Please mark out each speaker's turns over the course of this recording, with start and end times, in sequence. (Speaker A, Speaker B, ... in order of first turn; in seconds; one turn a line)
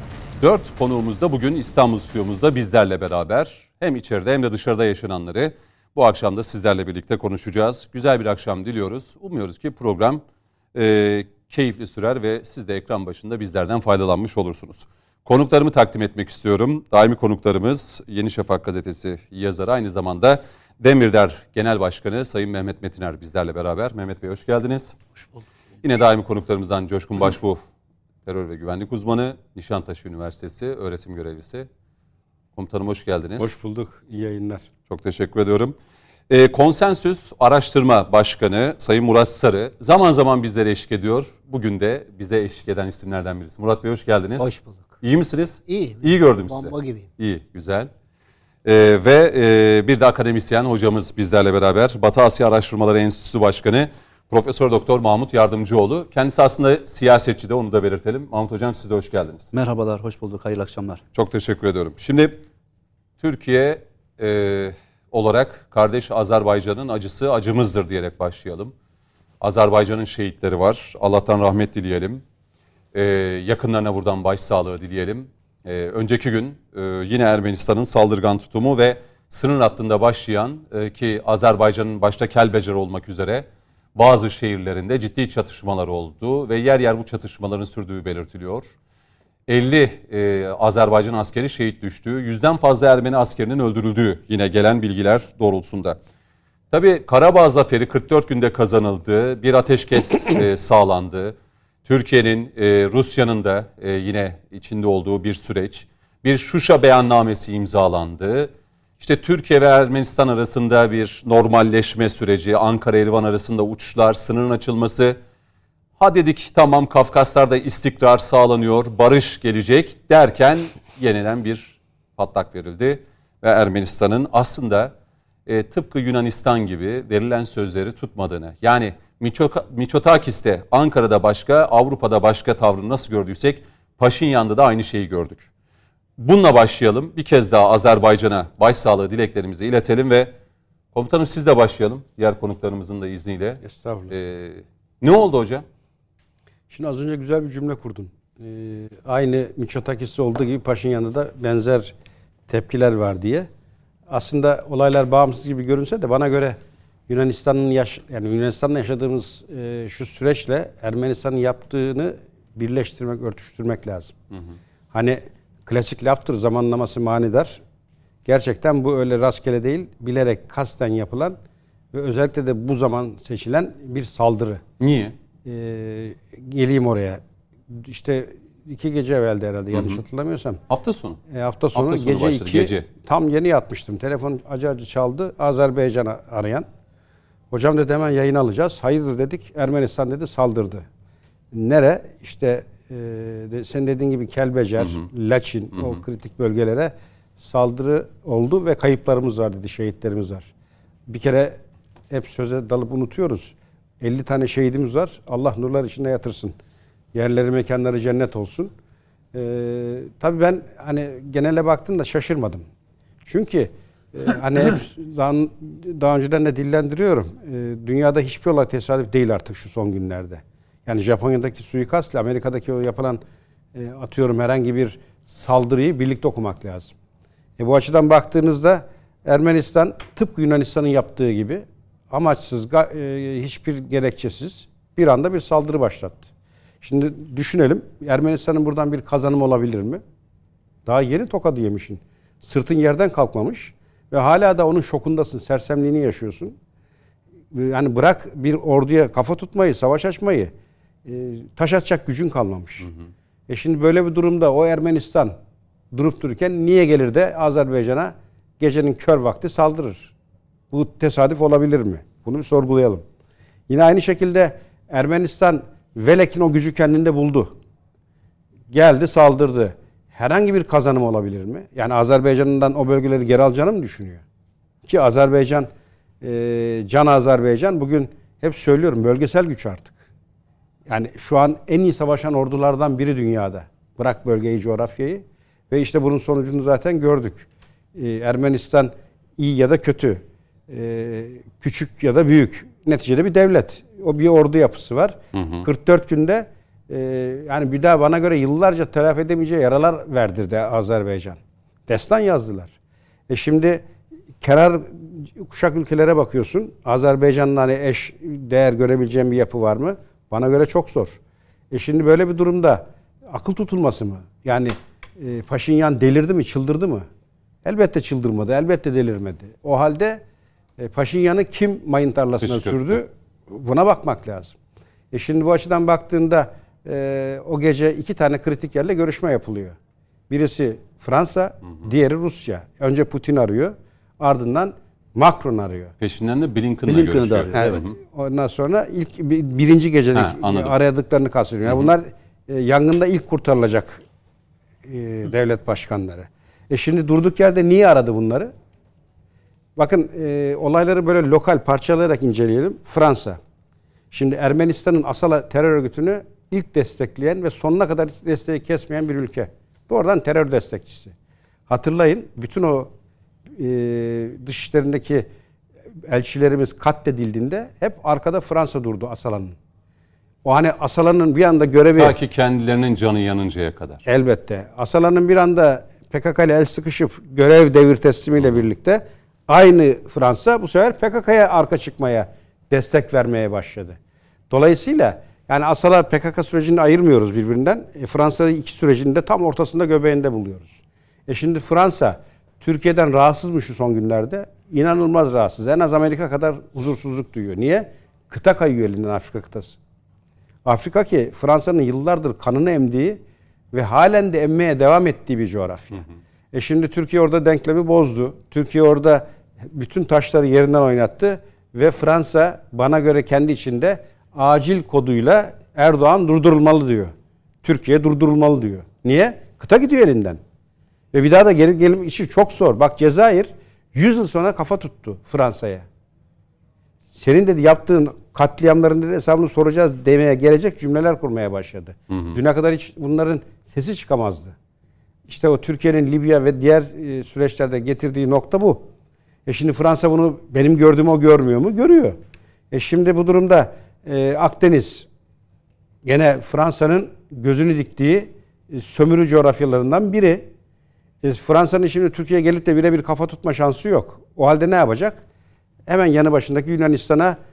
Speaker A: 0.4-10.2
Speaker A: 10.7-25.0
Speaker A: 25.8-27.6
Speaker A: 28.2-31.7
Speaker A: 32.5-33.5
Speaker B: 33.4-34.6
Speaker A: 34.9-35.7
Speaker A: 36.3-44.5
Speaker C: 44.4-45.0
Speaker A: 45.0-47.9
Speaker C: 45.6-47.1
Speaker A: 48.6-59.5
Speaker D: 59.5-61.0
Speaker A: 61.1-62.4
Speaker A: 63.2-68.7
Speaker A: 69.4-72.2
Speaker A: 72.9-88.7
Speaker A: 89.5-96.0
Speaker A: 96.7-101.3
Speaker A: 101.8-115.2
Speaker A: 116.0-124.9
Speaker A: 125.5-135.5
Speaker A: 136.2-140.3
Speaker A: 140.9-145.6
Speaker B: 143.6-144.1
Speaker B: 146.7-151.9
Speaker B: 152.5-153.5
Speaker B: 154.1-164.1
Speaker B: 164.9-167.6
Speaker B: 168.2-171.4
Speaker B: 171.9-174.6
Speaker A: 174.8-175.2
Speaker B: 175.4-180.6
Speaker A: 179.7-180.0
Speaker A: 180.7-181.2
Speaker B: 181.3-186.7
Speaker A: 181.7-182.9
Speaker B: 187.5-190.8
Speaker B: 191.5-200.5
Speaker A: 194.8-195.0
Speaker B: 201.1-206.6
Speaker B: 207.1-208.7
Speaker B: 209.3-212.7
Speaker B: 213.2-223.2
Speaker B: 223.7-226.9
Speaker B: 227.6-236.2
Speaker B: 236.8-240.0
Speaker B: 240.8-246.6
Speaker B: 247.5-250.5
Speaker B: 251.1-252.9
Speaker B: 253.5-255.3
Speaker B: 255.9-260.1
Speaker B: 260.7-263.0
Speaker B: 263.7-267.5
Speaker B: 268.7-274.2
Speaker B: 274.9-275.7
Speaker B: 276.2-279.9
Speaker B: 280.9-302.7
Speaker A: 295.3-295.7
Speaker B: 303.3-303.9
Speaker B: 304.4-311.2
Speaker B: 311.7-317.1
Speaker B: 317.6-320.2
Speaker B: 320.8-324.6
Speaker A: 322.4-323.0
Speaker B: 325.1-329.8
Speaker B: 330.3-335.9
Speaker A: 336.0-337.9
Speaker D: 336.9-337.8
Speaker B: 337.5-344.0
Speaker A: 340.1-340.7
Speaker A: 341.6-341.9
Speaker B: 344.8-348.5
Speaker B: 349.8-353.4
Speaker B: 354.1-361.1
Speaker B: 361.7-362.9
Speaker B: 363.5-365.3
Speaker B: 366.1-369.6
Speaker B: 370.4-372.1
Speaker A: 371.9-374.0
Speaker B: 374.1-384.0
Speaker B: 384.5-399.8
Speaker B: 400.6-420.4
Speaker B: 421.1-425.9
Speaker B: 427.1-434.5
Speaker A: 432.1-432.4
Speaker B: 435.3-438.9
Speaker B: 439.4-442.2
Speaker B: 442.7-445.1
Speaker B: 446.0-450.5
Speaker B: 451.2-455.2
Speaker B: 455.9-457.4